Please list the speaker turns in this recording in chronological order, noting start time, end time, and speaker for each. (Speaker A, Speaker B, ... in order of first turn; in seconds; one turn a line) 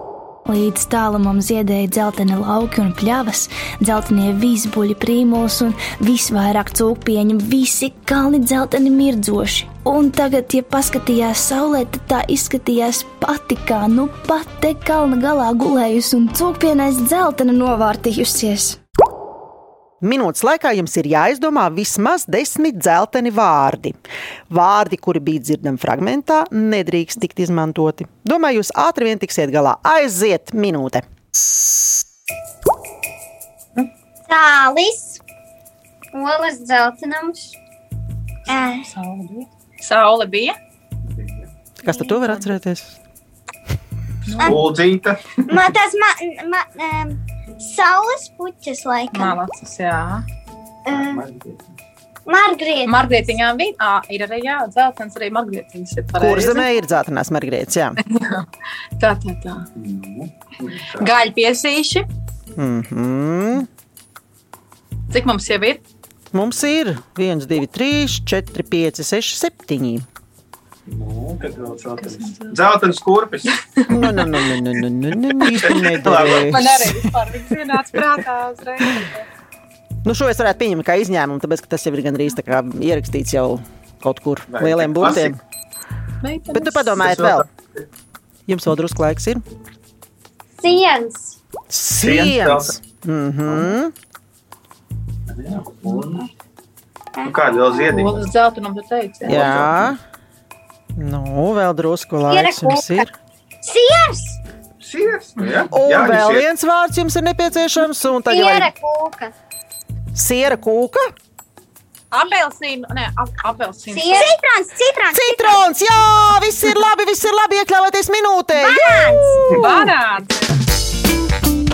Speaker A: 0.5-18.8
Speaker B: 20.0-24.0
Speaker B: 24.5-31.0
Speaker C: 34.3-35.2
Speaker C: 36.1-37.6
Speaker C: 38.5-38.9
Speaker D: 38.8-40.6
Speaker E: 41.0-41.5
Speaker B: 41.8-43.0
Speaker D: 41.9-42.5
Speaker D: 44.3-44.7
Speaker E: 44.4-45.6
Speaker C: 45.5-49.4
Speaker D: 49.1-50.2
Speaker C: 50.9-51.2
Speaker E: 50.9-51.7
Speaker C: 52.3-53.0
Speaker D: 52.9-56.7
Speaker B: 56.2-58.0
Speaker D: 58.1-58.5
Speaker D: 59.0-59.6
Speaker E: 59.8-61.1
Speaker D: 61.0-62.1
Speaker B: 62.6-63.7
Speaker D: 65.1-65.8
Speaker B: 66.3-70.1
Speaker E: 70.9-73.5
Speaker D: 72.0-72.6
Speaker D: 73.8-74.5
Speaker B: 73.9-76.8
Speaker E: 75.2-77.0
Speaker D: 76.4-79.3
Speaker B: 80.0-85.4
Speaker E: 84.5-85.4
Speaker D: 86.2-87.0
Speaker B: 86.5-87.5
Speaker E: 87.0-87.8
Speaker B: 88.5-89.4
Speaker C: 90.6-91.4
Speaker B: 91.7-93.9
Speaker E: 92.0-92.8
Speaker E: 93.5-93.7
Speaker E: 95.3-96.2
Speaker D: 95.8-96.2
Speaker E: 97.2-98.2
Speaker D: 97.9-99.7
Speaker B: 99.3-100.0
Speaker E: 99.3-99.9
Speaker B: 101.0-103.1
Speaker C: 102.3-103.0
Speaker C: 103.6-104.4
Speaker E: 104.8-106.5
Speaker B: 105.7-108.7
Speaker C: 108.2-109.3
Speaker B: 110.1-111.1
Speaker D: 112.1-114.3
Speaker C: 113.9-115.6
Speaker B: 115.1-119.9
Speaker C: 118.6-119.4
Speaker D: 119.5-120.5